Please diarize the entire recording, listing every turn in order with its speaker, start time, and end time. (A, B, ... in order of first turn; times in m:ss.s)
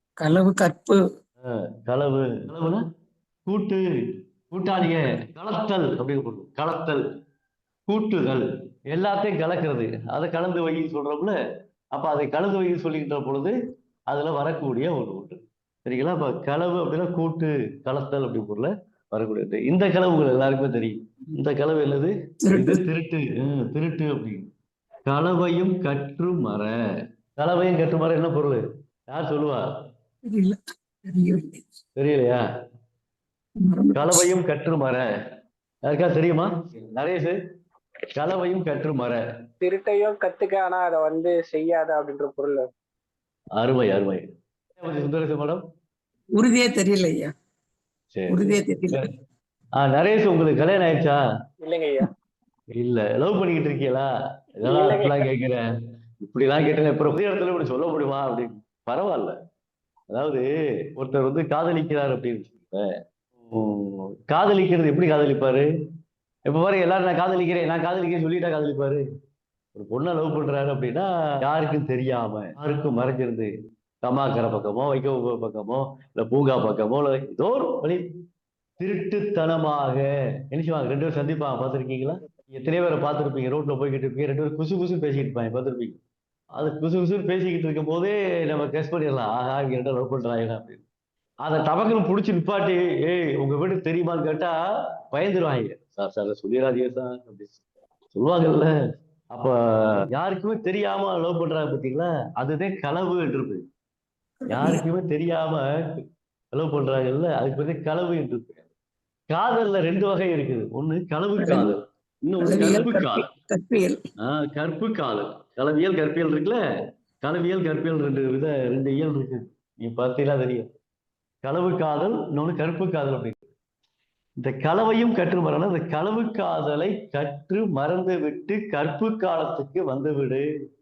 0:00.2-0:01.0 A
0:01.8-0:02.8 B
0:03.5-0:03.8 B
0:04.5-0:07.0 B
0:07.9-0:11.4 B
0:11.9-0:13.5 B
0:14.1-0:24.4 B
0:22.4-0:22.8 A
0:25.1-0:26.7 B
0:27.4-0:29.6 B
0:30.3-0:31.6 A
0:32.0-0:32.4 B
0:33.6-0:34.2 A
0:33.9-0:35.0 B
0:35.8-0:37.4 B
0:38.1-0:39.2 B
0:39.6-0:42.6 C
0:43.6-0:45.6 B
0:46.4-0:47.3 A
0:48.1-0:49.0 B
0:48.3-0:49.0 A
0:49.8-0:51.2 B
0:51.6-0:52.1 C
0:52.8-0:54.0 B
0:54.6-0:55.6 B
0:54.6-0:55.2 C
0:56.2-0:59.3 B
1:00.1-1:00.4 B
1:01.0-1:02.9 B
1:03.5-1:05.7 B
1:06.5-1:09.0 B
1:09.7-1:13.5 B
1:14.0-1:18.0 B
1:18.8-1:26.0 B
1:26.5-1:30.8 B
1:31.4-1:34.6 B
1:35.1-1:37.6 B
1:38.1-1:38.7 B
1:39.3-1:39.5 B
1:40.1-1:43.6 B
1:44.4-1:44.8 A
1:44.5-1:45.7 B
1:46.5-1:48.6 B
1:49.3-1:53.2 B
1:51.4-1:51.7 A
1:52.4-1:54.0 A
1:54.2-1:56.6 B
1:57.2-2:00.7 B
2:01.4-2:03.4 B
2:04.4-2:10.4 B